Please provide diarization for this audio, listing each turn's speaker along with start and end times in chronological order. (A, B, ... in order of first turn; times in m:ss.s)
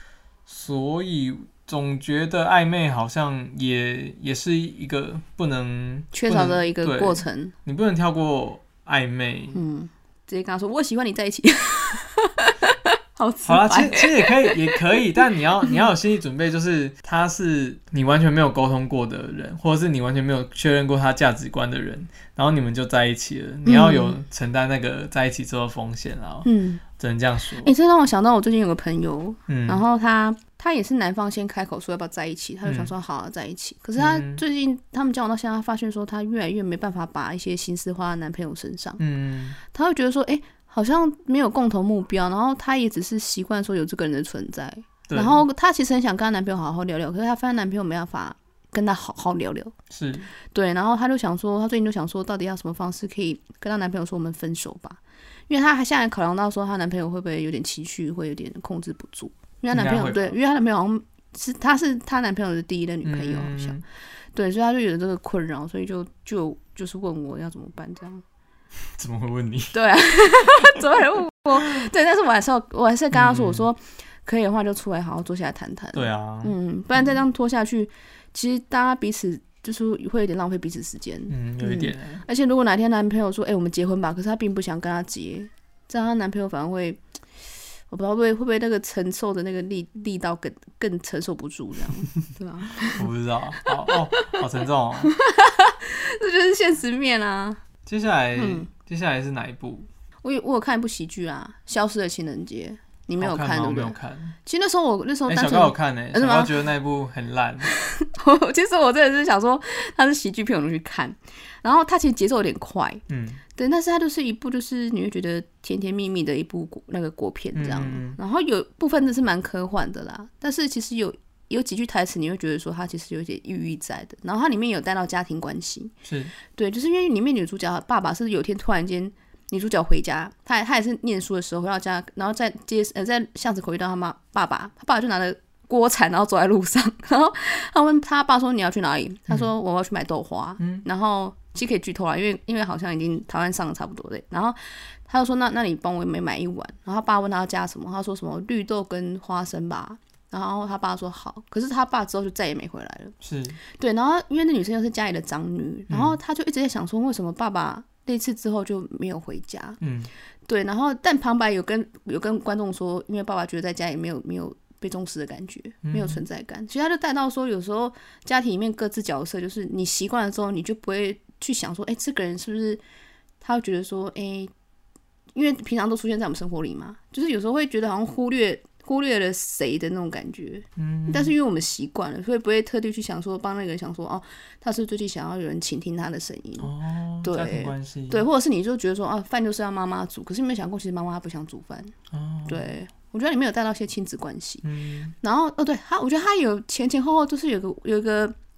0:00.5-0:09.6 A
0:06.1-0:07.5 B
0:09.5-0:15.8 B
0:13.4-0:27.7 A
0:23.7-0:24.2 B
0:26.4-0:26.8 B
0:27.6-0:39.0 B
0:29.5-0:29.8 A
0:32.7-0:32.9 A
0:34.0-0:34.4 A
0:39.0-0:39.6 A
0:39.6-0:49.7 B
0:45.1-0:45.4 A
0:49.9-0:50.3 A
0:50.4-1:03.8 B
0:59.7-1:00.4 A
1:03.0-1:03.8 A
1:04.3-1:08.2 B
1:09.0-1:09.8 A
1:09.7-1:27.0 B
1:10.4-1:10.7 A
1:13.1-1:13.7 A
1:15.9-1:17.1 A
1:21.3-1:22.2 A
1:27.9-1:33.1 B
1:32.8-1:35.1 A
1:33.9-1:34.4 B
1:35.1-1:37.6 B
1:37.8-1:39.9 A
1:38.4-1:38.7 B
1:40.2-1:46.6 B
1:43.2-1:44.4 A
1:45.3-1:47.7 A
1:47.7-1:53.0 B
1:53.1-1:53.4 A
1:53.6-2:05.9 B
1:57.6-1:58.2 A
2:06.0-2:06.3 A
2:06.5-2:33.2 B
2:20.6-2:20.8 A
2:33.2-2:33.6 A
2:33.7-2:39.8 B
2:35.9-2:36.2 A
2:39.8-2:40.1 A
2:40.5-2:52.8 B
2:45.8-2:46.2 A
2:53.4-2:54.5 B
2:55.3-3:06.7 B
3:00.8-3:01.3 A
3:06.6-3:08.3 A
3:07.2-3:11.9 B
3:12.1-3:12.7 A
3:12.5-3:14.6 B
3:14.6-3:15.1 A
3:15.2-3:18.4 B